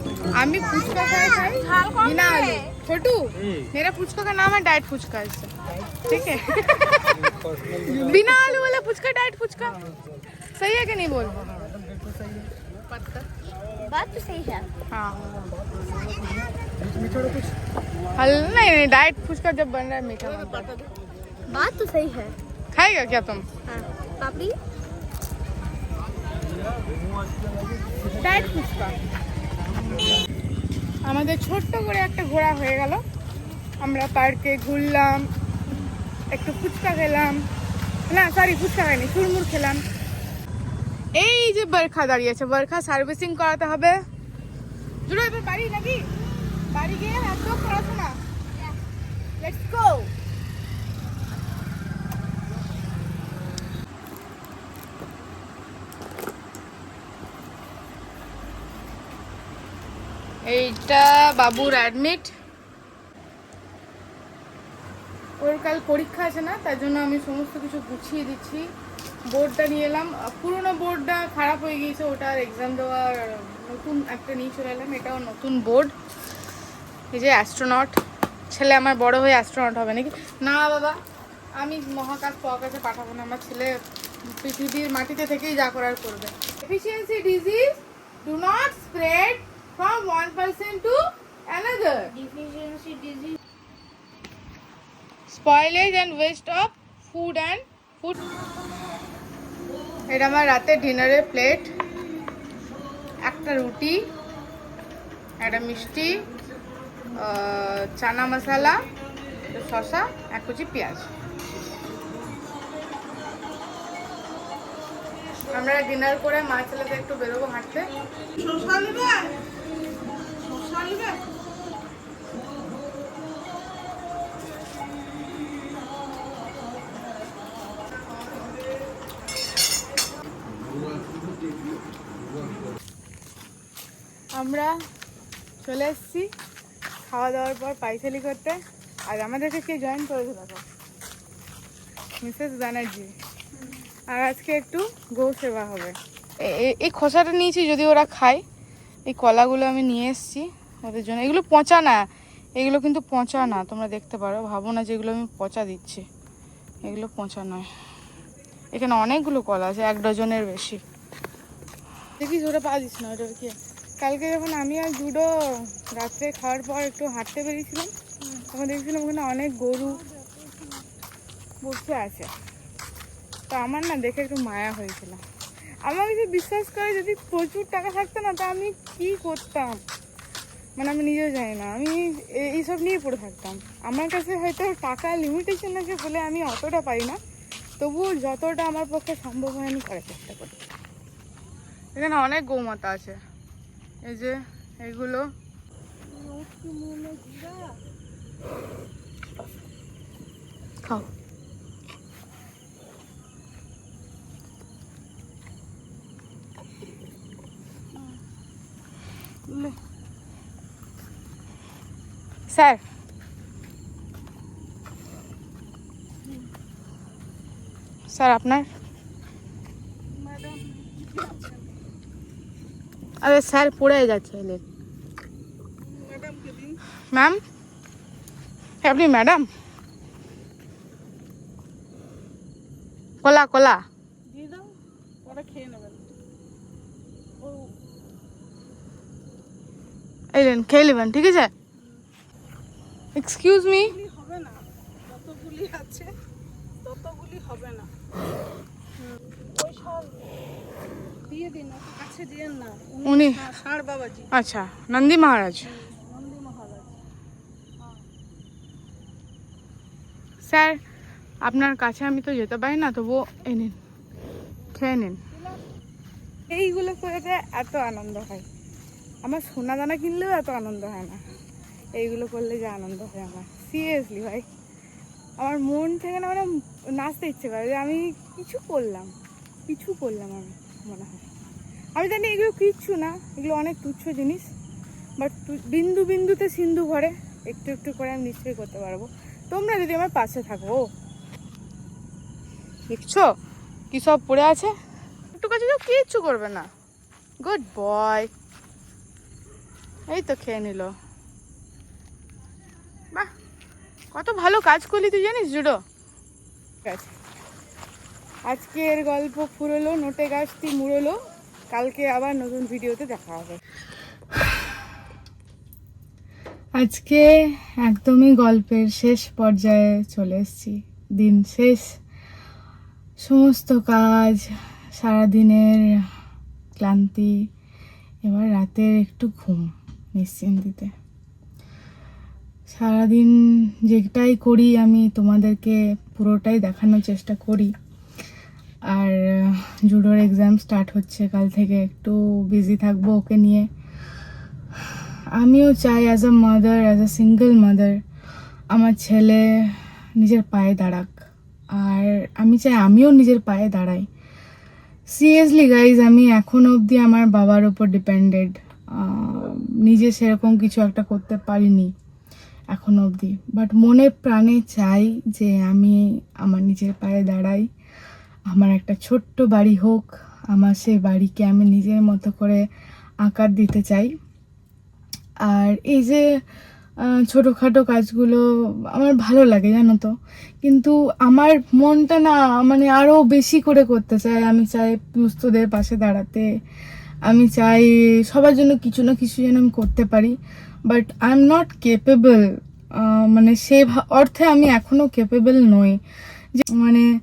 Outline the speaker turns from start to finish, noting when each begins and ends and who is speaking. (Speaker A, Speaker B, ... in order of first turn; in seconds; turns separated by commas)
Speaker A: 0.3-5.5, Speaker B: 1.4-2.7, Speaker A: 6.1-7.1, Speaker A: 7.9-9.8, Speaker A: 10.6-11.4, Speaker B: 13.8-14.7, Speaker A: 14.9-15.5, Speaker A: 18.2-20.7, Speaker B: 21.5-22.4, Speaker A: 22.7-23.4, Speaker B: 23.7-24.6, Speaker A: 28.2-29.0, Speaker A: 31.1-33.0, Speaker A: 33.8-35.2, Speaker A: 36.3-37.4, Speaker A: 38.1-39.8, Speaker A: 41.2-44.0, Speaker A: 45.1-46.0, Speaker A: 46.7-48.2, Speaker A: 49.4-50.1, Speaker A: 60.5-62.3, Speaker A: 65.4-68.7, Speaker A: 69.3-75.9, Speaker A: 77.1-81.0, Speaker A: 81.6-83.8, Speaker A: 84.3-92.1, Speaker B: 92.1-93.4, Speaker A: 95.3-98.2, Speaker A: 100.1-101.7, Speaker A: 103.2-104.1, Speaker A: 105.4-106.2, Speaker A: 107.2-108.8, Speaker A: 109.5-111.1, Speaker A: 115.5-117.9, Speaker C: 118.4-119.3, Speaker C: 120.4-121.2, Speaker A: 134.4-134.7, Speaker A: 135.6-136.3, Speaker A: 137.1-140.6, Speaker A: 142.2-143.1, Speaker A: 144.1-148.4, Speaker A: 149.1-156.1, Speaker A: 156.8-157.7, Speaker A: 158.7-160.8, Speaker A: 162.2-167.9, Speaker A: 168.5-170.0, Speaker C: 169.9-170.9, Speaker A: 171.6-172.3, Speaker A: 173.5-175.2, Speaker A: 175.8-179.8, Speaker A: 180.8-187.2, Speaker A: 187.8-190.6, Speaker A: 192.0-193.2, Speaker A: 194.1-195.3, Speaker C: 196.1-197.8, Speaker A: 212.5-212.8, Speaker A: 218.1-218.7, Speaker C: 220.1-221.7, Speaker A: 223.2-224.6, Speaker C: 225.8-226.8, Speaker A: 227.1-227.4, Speaker A: 228.8-229.5, Speaker A: 233.2-233.8, Speaker C: 234.3-236.0, Speaker C: 237.4-237.7, Speaker A: 240.3-241.5, Speaker A: 243.2-243.9, Speaker C: 243.8-246.1, Speaker C: 246.8-247.9, Speaker C: 249.6-250.2, Speaker C: 251.3-254.3, Speaker A: 253.1-253.5, Speaker A: 254.3-255.7, Speaker C: 255.7-256.9, Speaker A: 260.4-260.8, Speaker A: 261.4-263.8, Speaker A: 264.7-265.2, Speaker A: 266.5-268.4, Speaker A: 269.2-271.2, Speaker A: 272.0-274.5, Speaker A: 275.4-279.1, Speaker A: 279.7-281.2, Speaker A: 282.0-284.5, Speaker A: 285.2-290.8, Speaker A: 292.9-293.3, Speaker A: 293.9-294.7, Speaker A: 295.4-296.7, Speaker A: 297.4-298.3, Speaker A: 300.1-300.9, Speaker A: 304.1-305.8, Speaker A: 306.9-307.1, Speaker A: 308.5-311.2, Speaker A: 311.7-313.6, Speaker A: 316.8-321.9, Speaker A: 323.2-326.0, Speaker A: 326.8-327.3, Speaker A: 328.2-330.9, Speaker A: 332.7-337.7, Speaker A: 338.9-343.7, Speaker A: 344.9-348.0, Speaker A: 348.7-351.1, Speaker A: 351.8-354.1, Speaker A: 355.1-361.9, Speaker A: 362.7-367.6, Speaker A: 368.5-372.6, Speaker A: 373.2-374.1, Speaker A: 375.5-376.2, Speaker A: 377.1-378.4, Speaker A: 378.9-380.1, Speaker A: 380.6-386.5, Speaker A: 387.3-390.4, Speaker A: 390.9-392.4, Speaker A: 393.0-396.0, Speaker A: 396.6-397.1